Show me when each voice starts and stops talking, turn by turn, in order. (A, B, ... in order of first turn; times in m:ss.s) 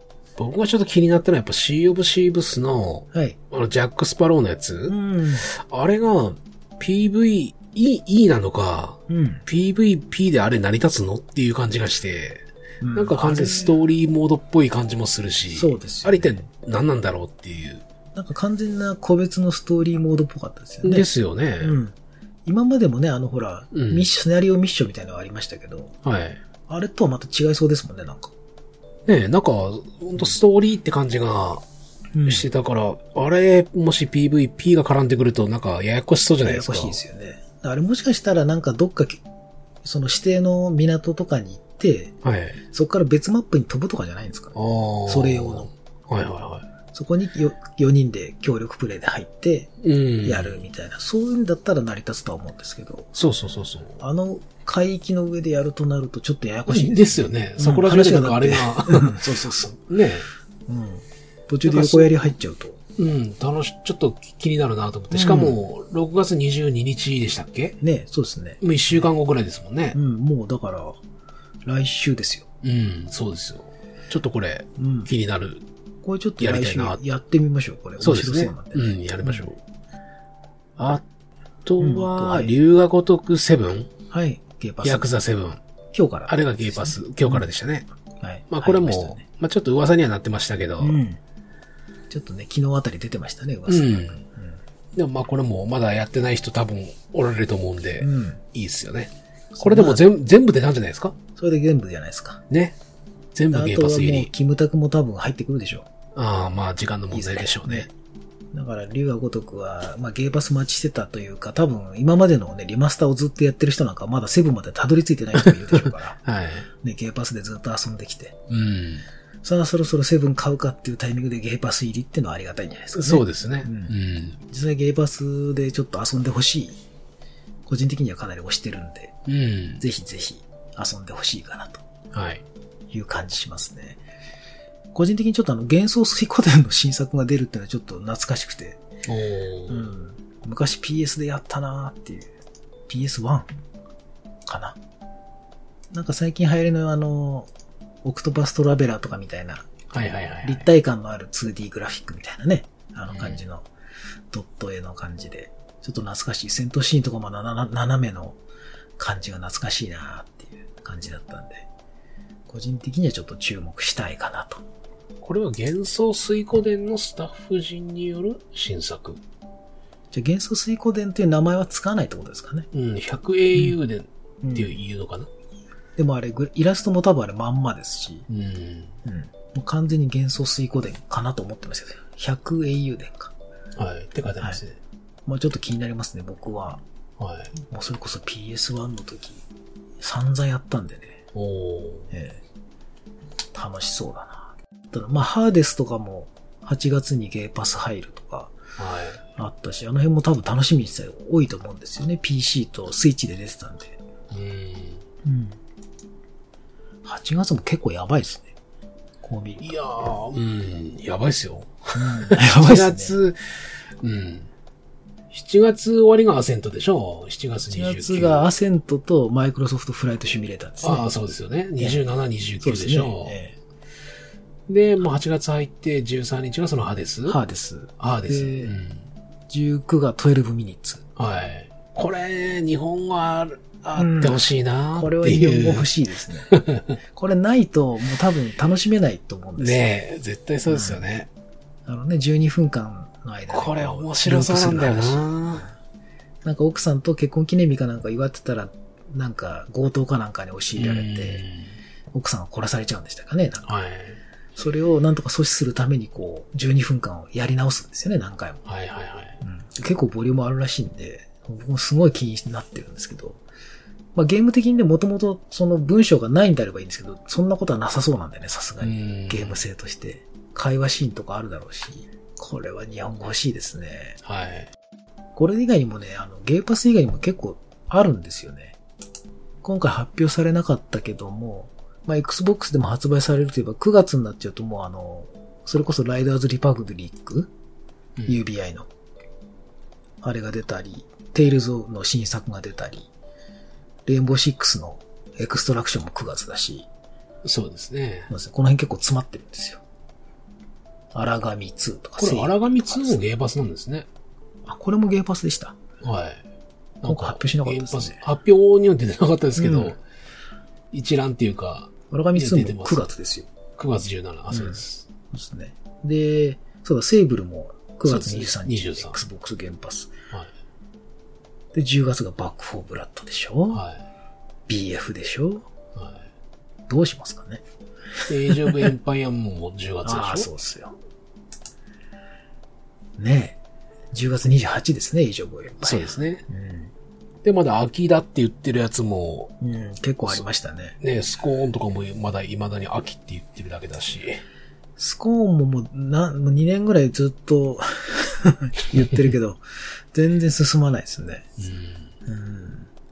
0:00.4-0:17.8 A
0:04.9-0:05.5 B
0:09.1-0:09.4 B
0:12.8-0:13.7 B
0:15.5-0:16.5 B
0:18.1-0:21.1 B
0:20.8-0:21.8 A
0:21.6-0:21.9 B
0:22.4-0:25.9 B
0:23.7-0:24.1 A
0:26.0-0:26.4 A
0:26.7-0:28.3 B
0:29.0-0:31.6 A
0:32.1-0:32.4 B
0:32.2-0:37.0 A
0:36.4-0:39.2 B
0:39.8-0:42.2 B
0:42.2-0:42.6 A
0:42.7-0:45.7 B
0:44.5-0:46.6 A
0:46.9-0:49.7 B
0:49.8-0:50.6 A
0:50.2-0:53.1 B
0:53.2-0:54.0 A
0:54.0-0:59.8 B
0:56.7-1:00.3 A
1:00.7-1:02.8 B
1:01.6-1:02.3 A
1:03.0-1:07.8 A
1:05.1-1:05.6 B
1:07.8-1:09.0 B
1:08.6-1:10.0 A
1:09.9-1:11.0 B
1:11.6-1:12.5 B
1:12.6-1:15.6 A
1:14.8-1:15.1 B
1:16.0-1:19.5 B
1:16.4-1:17.0 A
1:18.0-1:19.6 A
1:20.8-1:21.0 A
1:21.6-1:23.9 A
1:21.8-1:22.5 B
1:24.1-1:25.1 B
1:24.8-1:25.6 A
1:25.9-1:27.4 B
1:26.3-1:27.8 A
1:28.2-1:29.2 B
1:28.5-1:31.0 A
1:30.8-1:31.2 B
1:32.1-1:34.6 B
1:33.7-1:34.2 A
1:34.9-1:41.2 A
1:38.0-1:38.4 B
1:39.5-1:40.0 B
1:41.4-1:42.4 B
1:42.5-1:42.8 A
1:43.3-1:44.3 A
1:43.5-1:45.9 B
1:46.1-1:47.9 A
1:47.1-1:47.9 B
1:48.5-1:56.2 B
1:55.4-1:56.7 A
1:56.8-1:58.4 B
1:58.5-1:59.0 A
1:59.4-2:03.9 B
2:02.9-2:04.4 A
2:04.5-2:06.8 B
2:07.6-2:09.2 B
2:09.2-2:09.8 A
2:09.8-2:11.8 B
2:12.1-2:12.4 A
2:12.9-2:14.0 B
2:14.9-2:18.8 B
2:19.0-2:19.9 A
2:19.7-2:22.3 B
2:22.9-2:23.5 B
2:24.4-2:24.8 B
2:25.9-2:27.5 B
2:28.0-2:29.9 B
2:29.9-2:30.6 A
2:30.4-2:33.7 B
2:33.1-2:33.4 A
2:34.3-2:38.4 B
2:39.0-2:41.7 B
2:42.5-2:44.6 B
2:45.2-2:49.2 A
2:50.1-2:52.7 B
2:52.7-2:55.3 A
2:54.4-2:54.7 B
2:56.0-2:58.2 B
2:58.3-2:58.9 A
2:59.0-3:03.3 B
3:03.8-3:04.8 A
3:05.2-3:06.8 B
3:07.2-3:07.5 A
3:07.6-3:09.4 B
3:10.0-3:11.2 B
3:11.3-3:12.1 A
3:12.1-3:12.4 B
3:13.5-3:18.6 B
3:18.8-3:19.2 A
3:19.4-3:24.0 B
3:24.3-3:25.0 A
3:25.2-3:25.6 B
3:27.0-3:28.5 B
3:29.2-3:29.8 B
3:29.6-3:34.5 A
3:31.9-3:33.2 B
3:35.3-3:38.5 A
3:37.7-3:41.1 B
3:40.8-3:43.3 A
3:42.6-3:43.5 B
3:44.7-3:47.4 A
3:47.3-3:48.7 B
3:48.0-3:49.1 A
3:49.5-3:51.0 B
3:51.2-3:55.9 A
3:54.0-3:56.6 B
3:56.5-3:57.0 A
3:57.1-3:59.9 B
3:59.6-4:01.3 A
4:00.7-4:01.0 B
4:01.8-4:05.6 B
4:03.5-4:05.7 A
4:06.4-4:11.4 B
4:10.8-4:11.7 A
4:12.1-4:13.7 B
4:13.6-4:14.2 A
4:14.6-4:18.6 B
4:18.6-4:19.4 A
4:19.4-4:23.4 B
4:24.1-4:34.2 B
4:28.8-4:29.6 A
4:34.2-4:34.7 A
4:35.4-4:38.8 B
4:39.6-4:47.5 B
4:48.2-4:48.9 B
4:50.2-4:53.1 B
4:54.0-4:56.9 B
4:57.4-4:58.3 A
4:58.3-4:59.8 B
5:01.1-5:03.2 B
5:02.2-5:04.1 A
5:04.6-5:05.8 B
5:06.0-5:06.4 A
5:07.0-5:10.0 A
5:07.0-5:08.2 B
5:09.6-5:10.0 B
5:10.9-5:13.1 A
5:12.1-5:13.5 B
5:13.8-5:15.1 A
5:14.5-5:20.1 B
5:18.0-5:19.2 A
5:21.7-5:23.8 B
5:23.7-5:24.0 A
5:24.7-5:25.7 B
5:25.9-5:26.3 A
5:26.9-5:27.6 B
5:28.3-5:28.9 B
5:28.3-5:30.5 A
5:30.0-5:30.9 B
5:33.2-5:33.6 B
5:34.1-5:36.9 B
5:35.8-5:36.4 A
5:37.4-5:39.5 A
5:39.6-5:41.0 B
5:41.0-5:44.4 A
5:45.0-5:49.6 B
5:50.1-5:51.4 B
5:51.6-5:52.1 A
5:52.2-5:52.9 B